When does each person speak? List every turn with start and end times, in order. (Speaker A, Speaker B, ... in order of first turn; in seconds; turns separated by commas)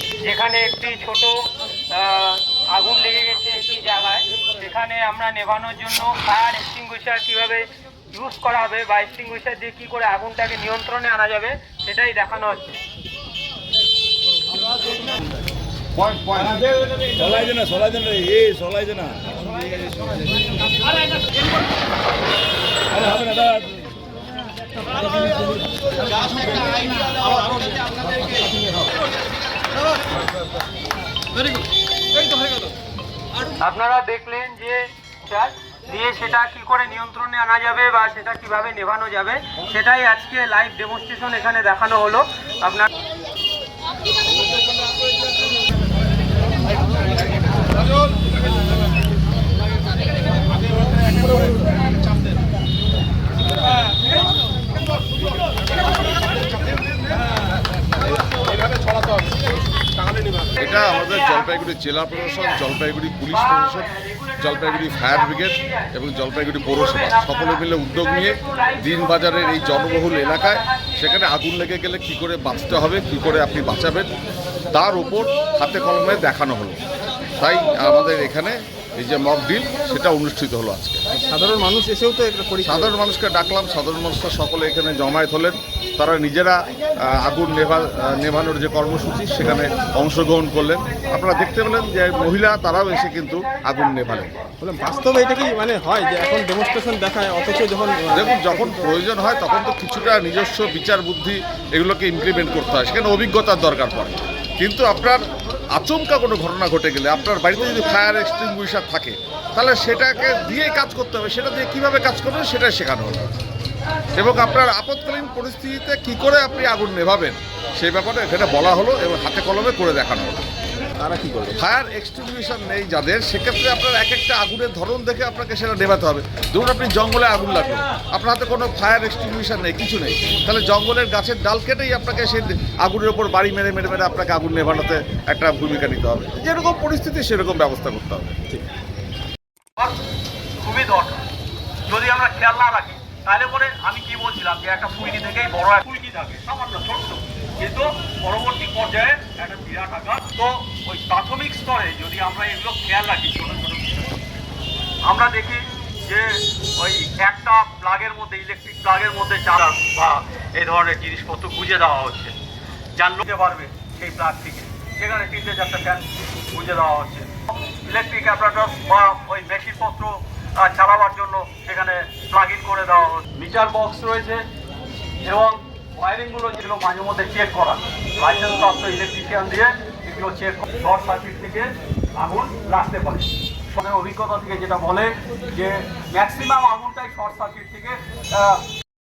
Speaker A: 0.2-12.8, Speaker B: 15.9-16.7, Speaker C: 17.0-19.4, Speaker C: 23.0-23.7, Speaker A: 33.6-42.9, Speaker B: 60.6-74.1, Speaker A: 63.3-65.9, Speaker A: 66.7-71.0, Speaker B: 74.7-76.8, Speaker B: 77.4-81.0, Speaker D: 81.2-83.0, Speaker B: 82.6-94.4, Speaker D: 94.6-98.9, Speaker B: 98.1-105.2, Speaker B: 105.7-113.3, Speaker B: 114.1-120.4, Speaker D: 121.0-121.6, Speaker B: 121.5-138.5, Speaker E: 140.6-141.2, Speaker E: 141.9-154.2, Speaker E: 155.0-162.3, Speaker E: 162.9-174.4, Speaker E: 175.2-188.7